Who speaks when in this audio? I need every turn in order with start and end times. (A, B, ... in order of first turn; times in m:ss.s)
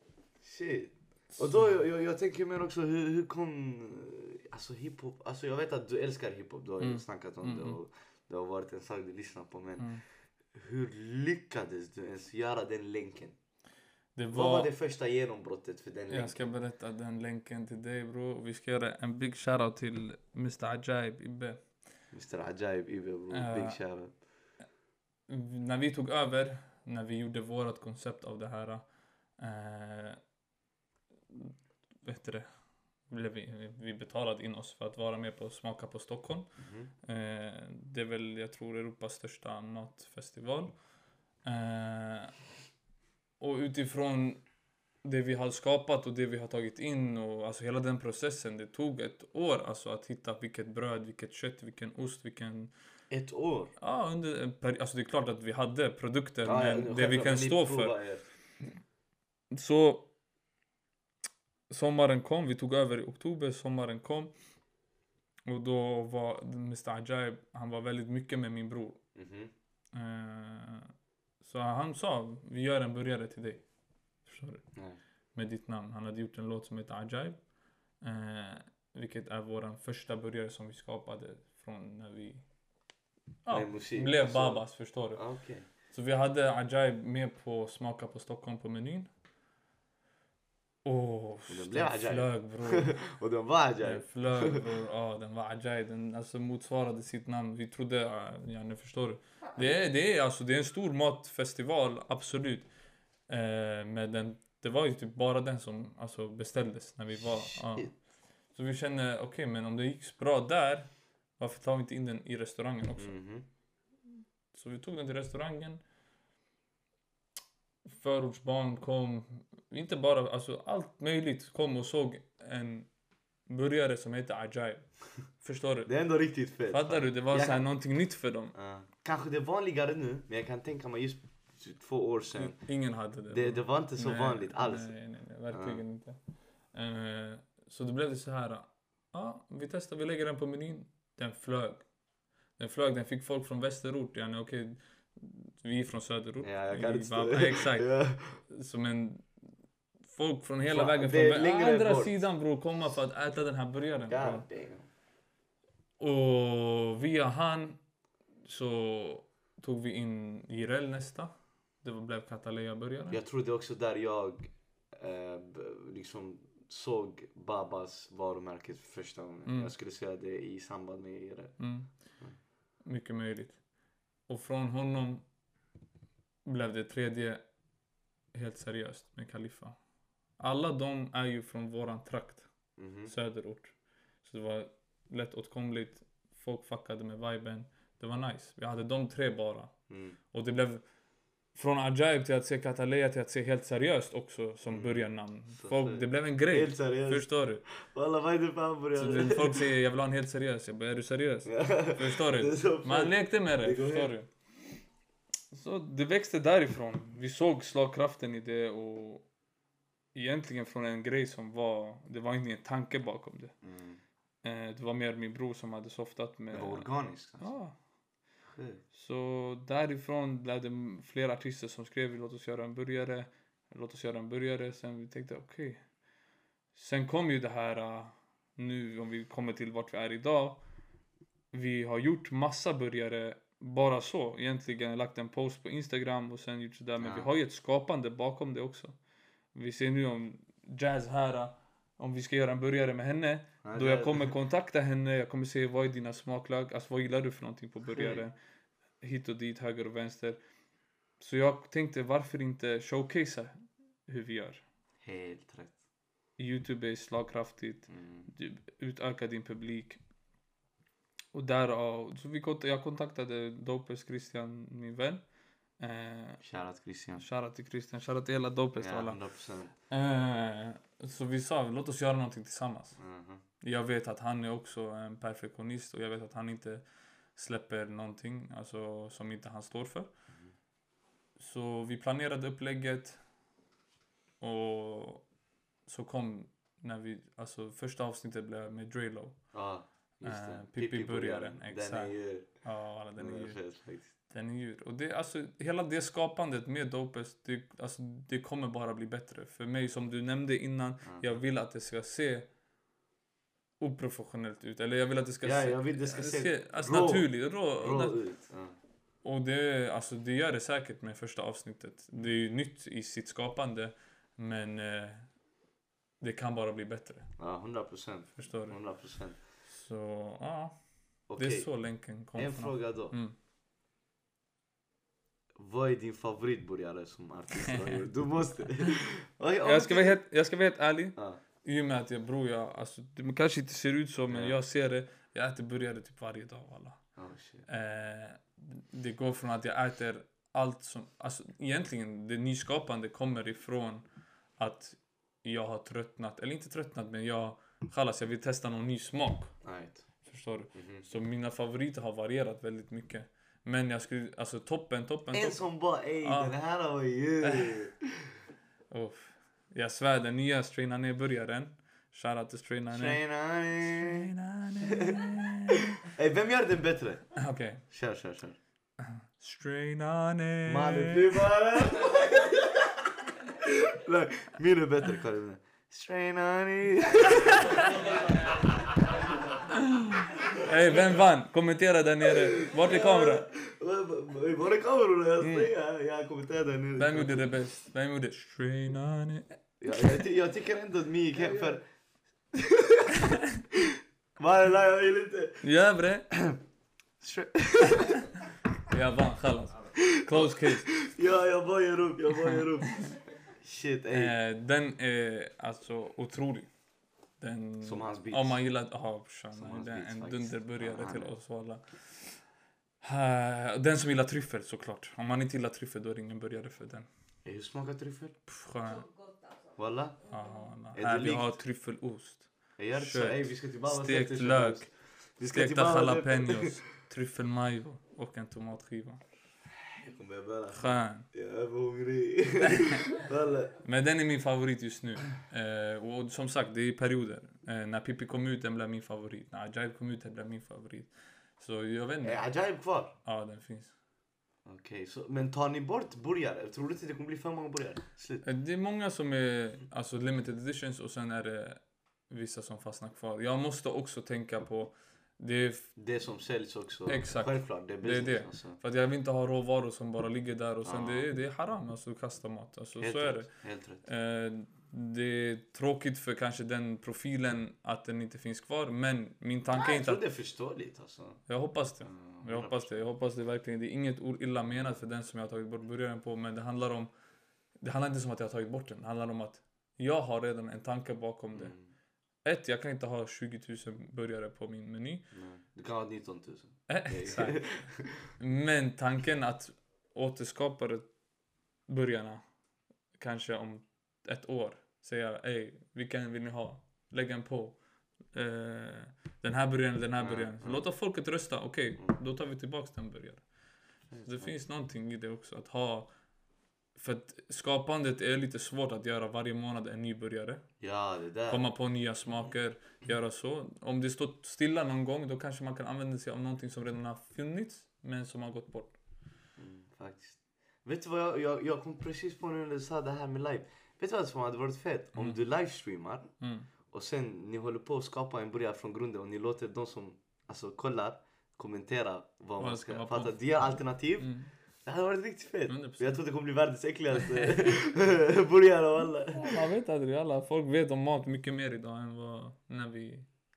0:00.4-0:13.4 A
0:06.8-0:07.8 B
0:14.2-0:14.7 B
0:14.3-0:16.5 A
0:16.1-0:21.7 B
0:22.1-0:24.2 A
0:23.3-0:23.8 B
0:25.3-0:28.8 B
0:29.4-0:30.2 B
0:31.3-0:32.5 B
0:33.1-0:40.8 B
0:36.6-0:36.9 A
0:41.4-0:42.4 B
0:43.4-0:44.4 B
0:45.0-0:52.7 B
0:53.1-0:53.7 A
0:53.8-0:58.0 B
0:56.4-0:58.2 A
0:59.5-1:00.1 B
1:01.7-1:04.3 B
1:05.4-1:09.0 B
1:09.1-1:09.5 A
1:09.9-1:13.6 B
1:14.2-1:14.7 B
1:15.3-1:17.5 B
1:18.0-1:22.4 B
1:23.4-1:29.1 B
1:23.5-1:25.7 A
1:30.8-1:33.0 B
1:31.5-1:34.6 A
1:33.8-1:42.7 B
1:43.3-1:53.1 B
1:47.5-1:47.9 A
1:53.0-1:53.4 A
1:54.5-1:55.8 B
1:57.8-2:02.9 B
2:03.4-2:05.9 B
2:05.8-2:07.6 A
2:06.7-2:08.5 B
2:08.5-2:12.6 A
2:12.4-2:16.2 B
2:13.3-2:15.0 A
2:15.5-2:15.8 A
2:16.7-2:21.8 B
2:22.6-2:29.4 B
2:26.4-2:28.4 A
2:30.0-2:34.4 B
2:30.7-2:32.2 A
2:34.1-2:34.9 A
2:36.0-2:37.8 B
2:38.4-2:43.2 B
2:43.1-2:51.6 A
2:49.4-2:49.7 B
2:51.6-2:51.9 B
2:52.8-2:53.6 B
2:54.3-2:55.2 B
2:56.4-2:57.4 B
2:58.3-2:59.8 B
3:00.4-3:02.5 B
3:02.8-3:03.1 A
3:03.0-3:10.8 B
3:09.9-3:10.2 A
3:11.5-3:17.6 B
3:14.7-3:19.6 A
3:19.0-3:24.3 B
3:21.5-3:24.1 A
3:25.5-3:29.3 B
3:30.1-3:33.5 B
3:33.6-3:34.0 A
3:34.4-3:36.9 B
3:36.5-3:37.5 A
3:37.4-3:37.7 B
3:38.5-3:38.8 A
3:38.9-3:45.8 B
3:46.7-3:50.6 B
3:51.5-3:59.0 B
3:57.0-3:57.3 A
3:59.5-4:08.3 B
4:03.6-4:04.3 A
4:07.9-4:08.2 A
4:09.0-4:10.4 B
4:11.2-4:14.6 B
4:15.0-4:15.8 A
4:16.4-4:20.0 B
4:17.9-4:18.3 A
4:21.3-4:25.2 B
4:25.8-4:26.4 B
4:26.4-4:27.2 A
4:27.2-4:29.2 B
4:28.8-4:29.7 A
4:29.9-4:33.0 B
4:33.0-4:33.4 A
4:33.6-4:36.8 B
4:37.4-4:40.1 B
4:41.4-4:43.2 B
4:44.4-4:45.3 B
4:45.8-4:49.5 B
4:49.5-4:52.5 A
4:50.2-4:53.6 B
4:53.1-4:54.1 A
4:54.2-5:02.5 B
5:01.0-5:01.3 A
5:03.8-5:08.2 B
5:05.4-5:08.7 A
5:09.2-5:15.3 B
5:16.2-5:17.3 B
5:17.4-5:19.4 A
5:18.4-5:18.8 B
5:19.6-5:20.7 B
5:21.3-5:21.7 A
5:21.4-5:23.3 B
5:22.3-5:23.2 A
5:25.6-5:30.2 A
5:29.6-5:37.0 B
5:31.2-5:31.4 A
5:34.3-5:34.6 A
5:37.2-5:37.6 A
5:37.7-5:44.0 B
5:44.6-5:49.5 B
5:49.6-5:50.0 A
5:50.2-5:55.6 B
5:50.7-5:51.0 A
5:55.3-5:58.2 A
5:56.2-5:56.5 B
5:57.4-5:57.8 B
5:58.9-6:03.2 B
6:02.9-6:04.3 A
6:03.8-6:05.9 B
6:04.9-6:05.2 A
6:06.1-6:07.3 A
6:07.3-6:07.8 B
6:07.9-6:08.6 A
6:09.0-6:11.4 B
6:10.7-6:12.9 A
6:13.5-6:17.8 A
6:19.7-6:23.5 B
6:22.6-6:27.5 A
6:25.4-6:25.7 B
6:27.0-6:30.2 B
6:29.8-6:31.8 A
6:32.5-6:33.4 A
6:34.4-6:35.6 A
6:35.6-6:36.3 B
6:36.3-6:36.6 A
6:37.2-6:38.3 A
6:38.9-6:41.1 B
6:39.9-6:44.3 A
6:42.5-6:43.1 B
6:44.1-6:46.7 B
6:47.4-6:52.4 B
6:47.8-6:48.6 A
6:49.5-6:51.3 A
6:53.0-6:57.1 B
6:57.4-6:58.4 A
6:58.5-6:59.0 B
6:58.8-7:00.7 C
6:59.8-7:00.2 A
7:00.3-7:09.2 B
7:00.9-7:01.6 A
7:02.8-7:06.7 A
7:10.0-7:13.7 A
7:10.7-7:11.2 B
7:13.8-7:22.4 B
7:22.2-7:23.1 A
7:23.2-7:23.9 B
7:24.6-7:28.4 A
7:28.4-7:35.9 B
7:36.0-7:38.8 A
7:37.0-7:43.5 B
7:40.8-7:41.3 A
7:43.0-7:44.0 A
7:44.0-7:50.2 B
7:49.7-7:51.4 A
7:51.5-7:57.1 B
7:52.0-7:53.0 A
7:57.8-8:01.7 B
8:01.5-8:01.9 A
8:02.4-8:05.3 B
8:05.3-8:08.2 A
8:06.9-8:11.1 B
8:11.9-8:12.4 B
8:13.2-8:23.5 B
8:20.2-8:20.9 A
8:24.1-8:24.6 A
8:24.2-8:26.1 B
8:27.0-8:30.6 B
8:30.8-8:31.7 A
8:31.5-8:39.0 B
8:39.6-8:46.3 A
8:46.4-8:46.7 B
8:46.9-8:59.6 A
8:52.6-8:54.5 B
8:55.7-8:56.2 B
8:57.3-8:57.6 B
8:59.3-9:03.3 B